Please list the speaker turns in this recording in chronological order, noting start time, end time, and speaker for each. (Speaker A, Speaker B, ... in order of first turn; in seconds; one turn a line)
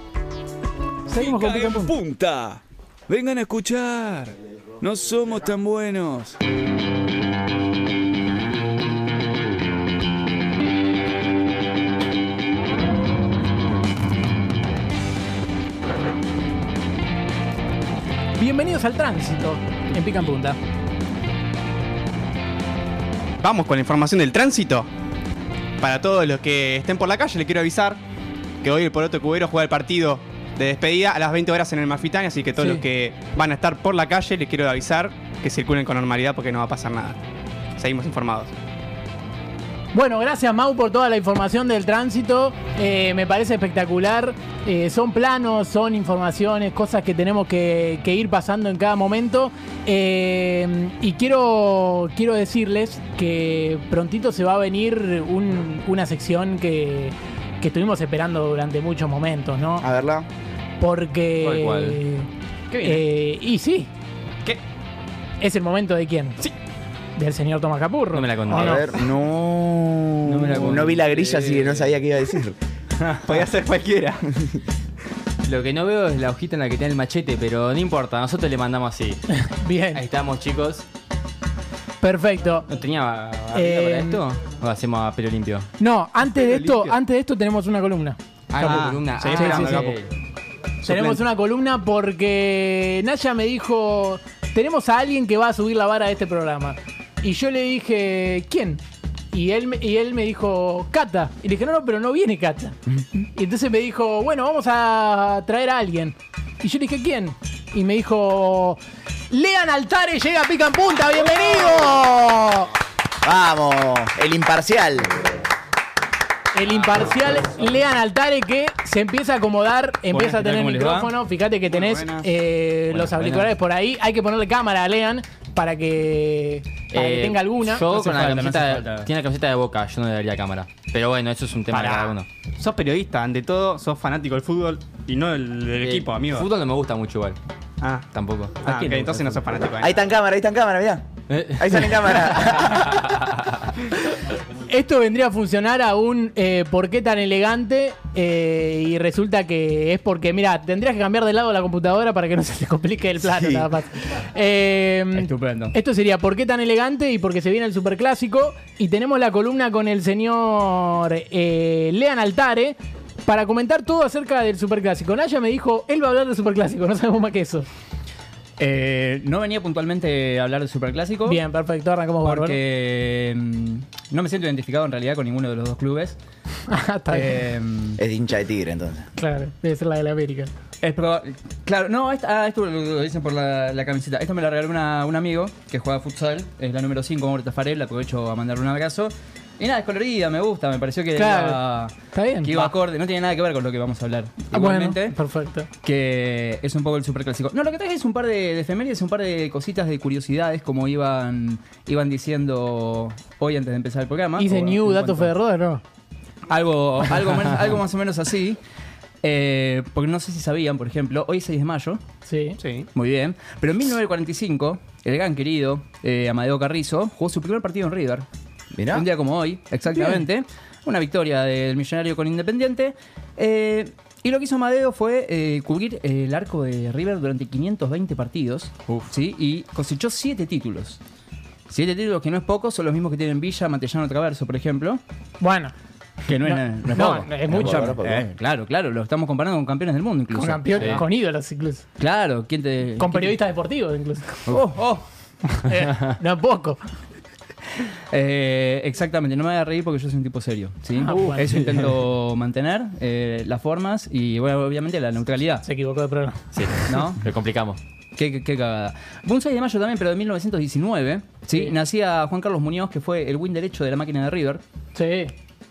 Speaker A: 1.1-1.9
Speaker B: 1.1-6.4
Speaker A: 18.4-20.6
Speaker C: 23.4-24.9
Speaker C: 25.8-28.0
Speaker C: 28.6-37.2
Speaker C: 37.8-38.5
Speaker A: 39.9-59.9
Speaker D: 59.8-60.3
Speaker A: 60.8-62.3
Speaker E: 61.4-62.0
Speaker A: 62.8-63.9
Speaker A: 65.4-66.4
Speaker A: 67.2-68.9
Speaker E: 68.1-68.8
Speaker D: 68.5-72.5
Speaker E: 70.2-71.9
Speaker C: 73.2-74.3
Speaker E: 75.5-79.2
Speaker A: 79.4-80.0
Speaker E: 79.9-80.8
Speaker A: 82.0-82.7
Speaker E: 82.7-85.7
Speaker A: 83.5-84.2
Speaker A: 85.8-89.9
Speaker C: 86.4-86.9
Speaker E: 88.5-90.1
Speaker C: 88.5-90.0
Speaker A: 90.8-98.8
Speaker A: 99.3-108.8
Speaker A: 109.3-112.7
Speaker D: 113.2-115.1
Speaker A: 116.5-127.9
Speaker F: 120.1-121.1
Speaker F: 122.0-122.2
Speaker E: 126.9-132.2
Speaker F: 127.8-129.1
Speaker C: 131.7-136.5
Speaker E: 135.8-137.4
Speaker C: 137.8-138.1
Speaker E: 138.1-139.3
Speaker C: 138.6-139.9
Speaker D: 139.8-143.0
Speaker E: 141.3-141.6
Speaker A: 144.7-167.7
Speaker F: 155.1-155.7
Speaker F: 168.6-171.4
Speaker A: 171.2-172.6
Speaker F: 172.2-176.2
Speaker A: 176.7-177.4
Speaker F: 177.1-178.0
Speaker D: 178.0-179.1
Speaker A: 179.2-180.5
Speaker F: 180.8-195.2
Speaker A: 191.1-192.7
Speaker A: 194.5-195.7
Speaker F: 195.8-205.3
Speaker A: 204.4-205.8
Speaker F: 206.5-208.6
Speaker F: 209.2-212.0
Speaker A: 212.3-212.6
Speaker C: 212.6-212.9
Speaker F: 212.9-218.2
Speaker D: 218.7-219.1
Speaker F: 218.9-231.0
Speaker A: 219.9-220.2
Speaker F: 231.7-235.0
Speaker A: 235.4-235.7
Speaker F: 236.3-241.0
Speaker A: 236.4-237.9
Speaker D: 237.5-238.3
Speaker A: 240.3-241.8
Speaker E: 240.8-241.0
Speaker F: 242.0-243.4
Speaker A: 243.0-244.4
Speaker F: 244.5-245.0
Speaker A: 245.5-246.8
Speaker F: 248.1-255.6
Speaker A: 251.0-251.9
Speaker A: 255.6-256.4
Speaker E: 256.5-257.8
Speaker F: 256.9-257.2
Speaker F: 258.1-264.6
Speaker A: 264.9-265.3